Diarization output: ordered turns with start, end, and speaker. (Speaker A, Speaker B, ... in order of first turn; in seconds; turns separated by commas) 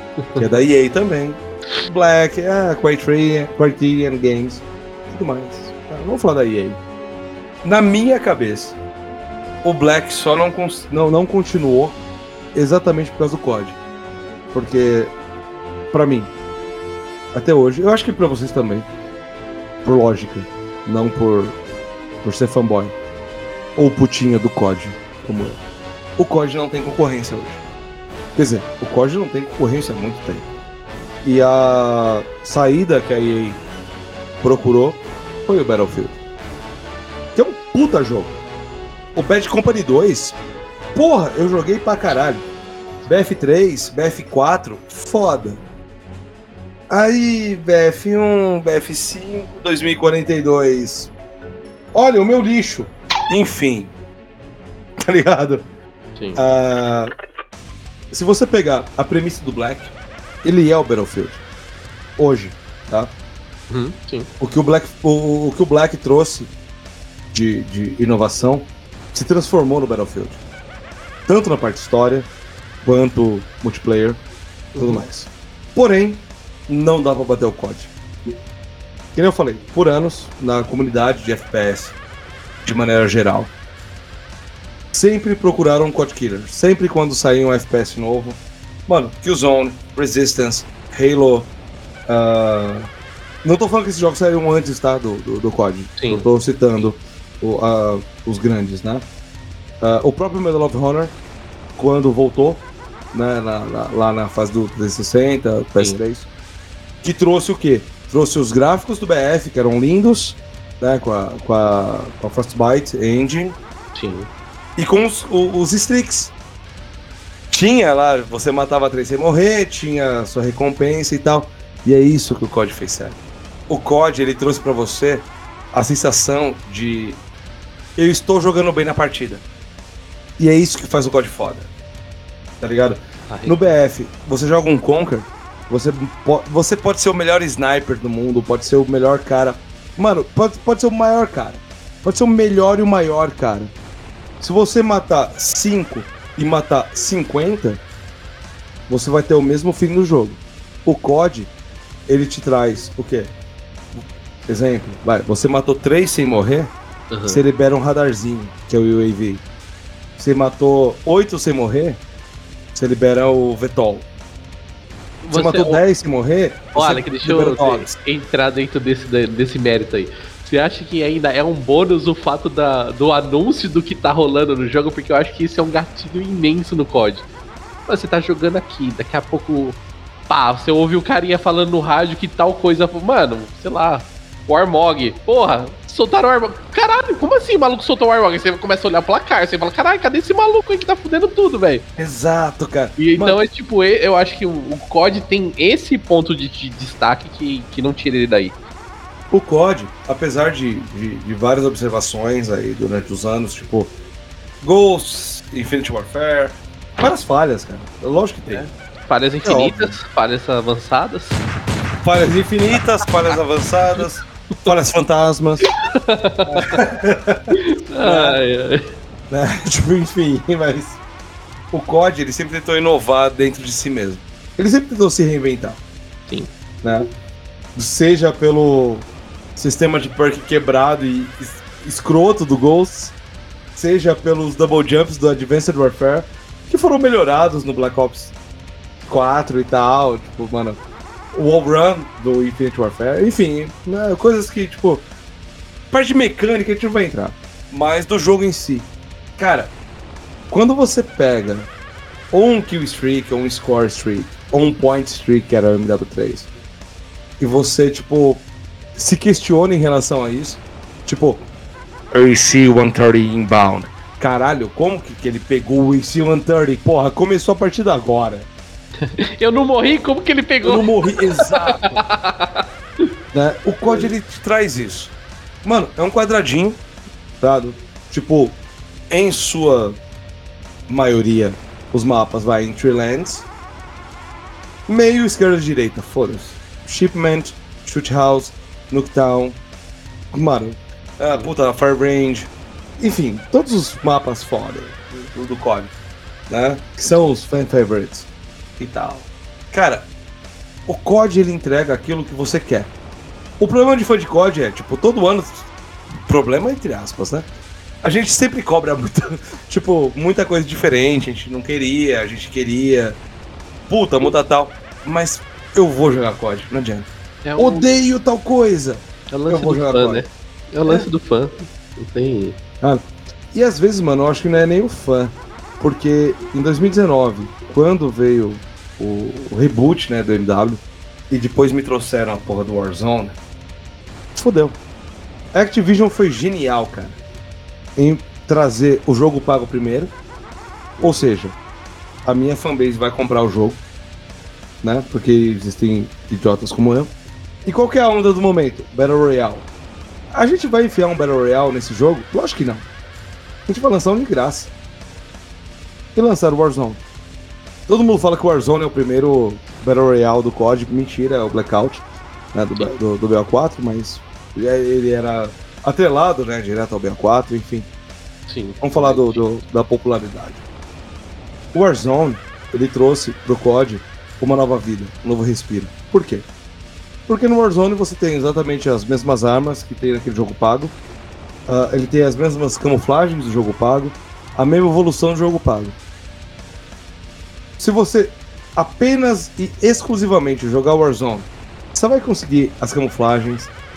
Speaker A: 0.2-0.6, Speaker B: 0.4-6.8, Speaker B: 7.6-8.8, Speaker B: 9.6-12.0, Speaker B: 12.6-13.8, Speaker B: 14.5-15.1, Speaker B: 15.9-16.3, Speaker B: 17.3-18.9, Speaker B: 19.8-21.6, Speaker B: 22.2-22.9, Speaker B: 23.8-25.6, Speaker B: 26.2-27.6, Speaker B: 28.3-30.5, Speaker B: 31.2-33.6, Speaker B: 34.4-36.2, Speaker B: 37.4-38.4, Speaker B: 39.1-40.4, Speaker B: 40.9-42.5, Speaker B: 43.0-45.6, Speaker B: 46.9-51.1, Speaker B: 51.9-53.9, Speaker B: 55.0-55.6, Speaker A: 56.2-56.4, Speaker B: 56.3-57.1, Speaker B: 58.1-59.9, Speaker B: 60.4-61.4, Speaker B: 62.2-63.1, Speaker A: 63.7-64.3, Speaker B: 64.4-66.5, Speaker B: 67.3-70.4, Speaker B: 71.3-72.3, Speaker B: 72.8-74.2, Speaker B: 74.7-77.9, Speaker A: 74.8-75.0, Speaker B: 79.1-82.0, Speaker B: 82.6-83.5, Speaker B: 84.9-91.5, Speaker B: 92.1-92.9, Speaker B: 93.4-99.1, Speaker A: 96.0-96.3, Speaker B: 99.8-101.2, Speaker B: 101.8-106.3, Speaker B: 107.0-113.6, Speaker A: 113.9-114.3, Speaker B: 114.8-116.3, Speaker B: 117.5-127.2, Speaker B: 128.0-129.4, Speaker B: 130.4-131.7, Speaker B: 132.6-143.7, Speaker A: 133.3-133.7, Speaker B: 144.4-147.8, Speaker B: 148.9-151.5, Speaker B: 152.1-153.3, Speaker B: 153.9-156.7, Speaker A: 157.1-157.4, Speaker B: 157.3-159.4, Speaker B: 160.2-162.0, Speaker B: 162.7-164.1, Speaker A: 165.2-165.8, Speaker B: 165.3-167.9, Speaker A: 166.8-177.3, Speaker A: 177.9-191.8, Speaker B: 192.0-193.4, Speaker A: 193.0-198.6, Speaker B: 199.3-203.9, Speaker B: 204.6-208.7, Speaker A: 208.5-211.4, Speaker B: 209.4-210.0, Speaker B: 212.0-215.6, Speaker A: 215.6-216.7, Speaker B: 216.5-218.4, Speaker A: 217.6-218.8, Speaker B: 219.3-221.0, Speaker B: 221.7-225.8, Speaker B: 226.8-227.1, Speaker B: 227.7-233.1, Speaker B: 233.8-238.3, Speaker B: 239.1-240.8, Speaker B: 241.3-245.1, Speaker B: 245.9-249.7, Speaker B: 250.5-251.7, Speaker B: 252.3-256.5, Speaker B: 257.4-261.4, Speaker B: 262.1-268.5, Speaker A: 269.0-273.1, Speaker B: 270.6-272.0, Speaker B: 273.3-276.8, Speaker B: 277.4-280.0, Speaker B: 280.9-283.5, Speaker B: 284.9-289.6, Speaker B: 290.3-295.9, Speaker B: 296.5-298.3, Speaker B: 298.8-300.1, Speaker B: 300.9-302.9, Speaker B: 303.6-305.7, Speaker B: 306.2-307.5, Speaker B: 308.0-313.2, Speaker B: 313.9-320.3, Speaker A: 317.4-317.9, Speaker A: 319.3-322.6, Speaker B: 322.8-333.4, Speaker B: 334.3-334.8, Speaker B: 335.5-337.2, Speaker B: 337.9-340.1, Speaker B: 341.0-341.6, Speaker B: 342.2-343.8, Speaker B: 344.8-347.1, Speaker B: 347.6-349.7, Speaker B: 350.3-352.8, Speaker B: 353.7-354.7, Speaker B: 356.1-357.0, Speaker B: 357.9-367.9, Speaker A: 368.5-369.5, Speaker B: 368.8-370.6, Speaker B: 371.7-376.5, Speaker B: 377.3-381.0, Speaker B: 381.7-385.9, Speaker B: 387.8-393.7